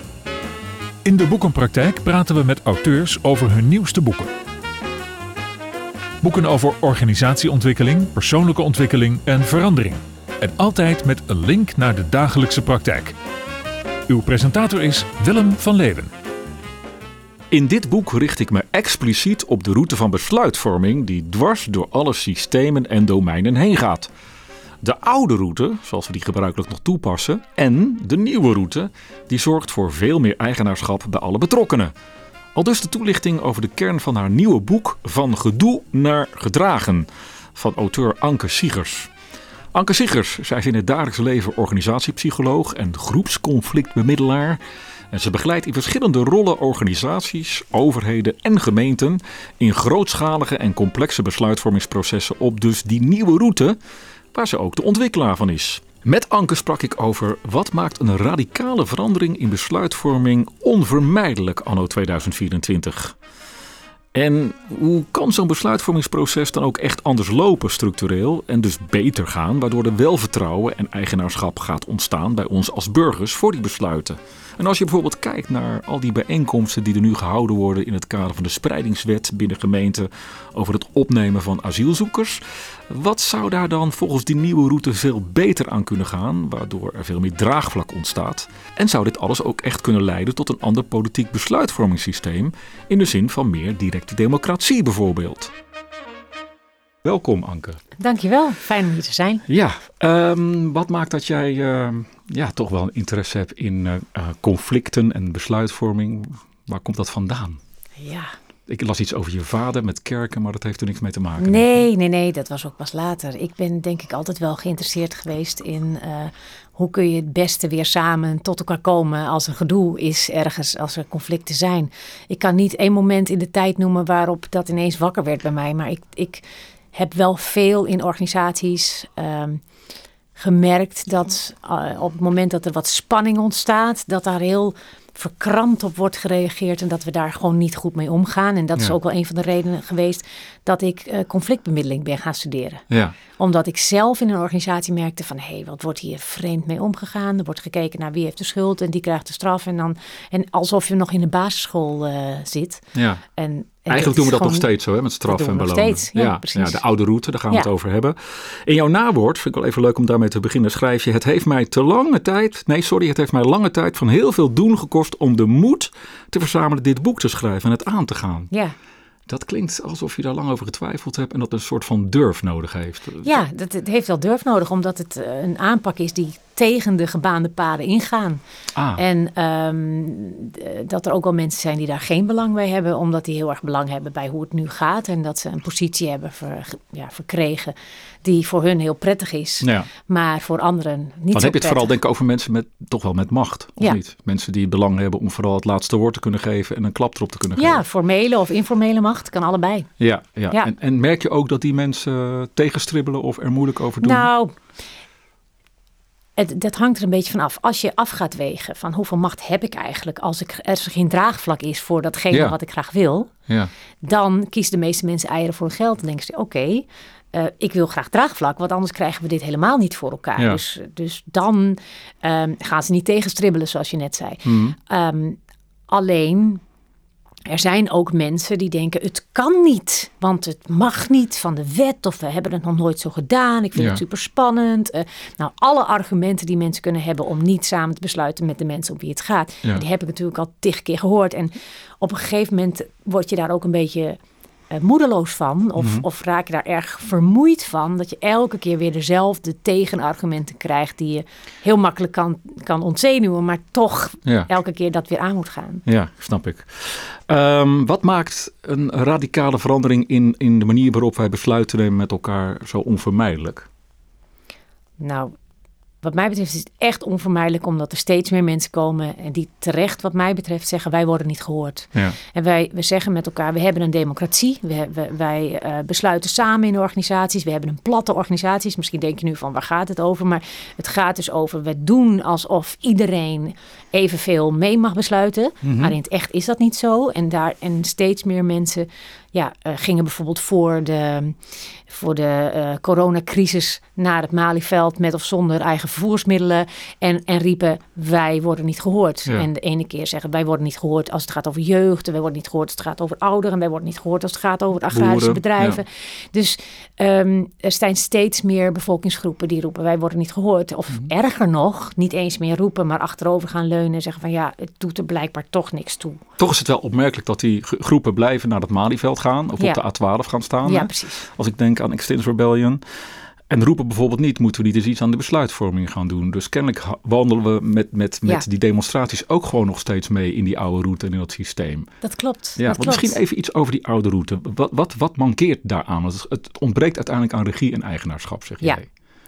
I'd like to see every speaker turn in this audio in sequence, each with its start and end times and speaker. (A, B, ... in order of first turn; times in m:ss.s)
0:01.0-0:04.3 A
0:06.2-0:13.2 A
0:14.1-0:16.1 A
0:17.5-0:24.1 B
0:24.8-0:31.9 B
0:32.6-0:39.1 B
0:39.7-0:44.6 B
0:45.1-0:53.8 B
0:54.3-1:03.2 B
1:04.1-1:35.5 B
1:37.0-1:37.8 B
1:38.0-1:39.4 C
1:39.5-1:47.6 B
1:48.0-1:48.3 C
1:48.7-1:51.8 B
1:51.4-2:06.4 C
2:06.9-2:09.6 C
2:10.4-2:22.8 C
2:22.9-2:23.2 B
2:23.4-2:34.7 C
2:33.0-2:33.2 B
2:33.9-2:48.5 B
2:35.3-2:36.8 C
2:49.3-2:53.4 B
2:53.2-2:58.4 C
2:58.8-2:59.0 B
2:59.0-3:12.0 C
3:09.6-3:09.9 B
3:11.3-3:17.8 B
3:17.6-3:19.9 C
3:20.0-3:24.3 B
3:24.0-3:24.6 C
3:26.4-3:33.3 C
3:32.3-3:32.6 B
3:34.0-3:45.4 C
3:44.5-3:44.8 B
3:45.9-3:46.6 C
3:47.5-4:04.2 C
3:53.8-3:54.0 B
4:04.7-4:15.8 C
4:05.8-4:06.0 B
4:15.9-4:23.7 B
4:25.0-4:25.3 C
4:26.0-5:16.2 C
4:45.6-4:46.0 B
5:04.9-5:05.8 B
5:16.4-5:22.8 B
5:20.6-5:21.2 C
5:23.5-5:31.9 B
5:32.0-5:33.2 C
5:32.6-5:38.8 B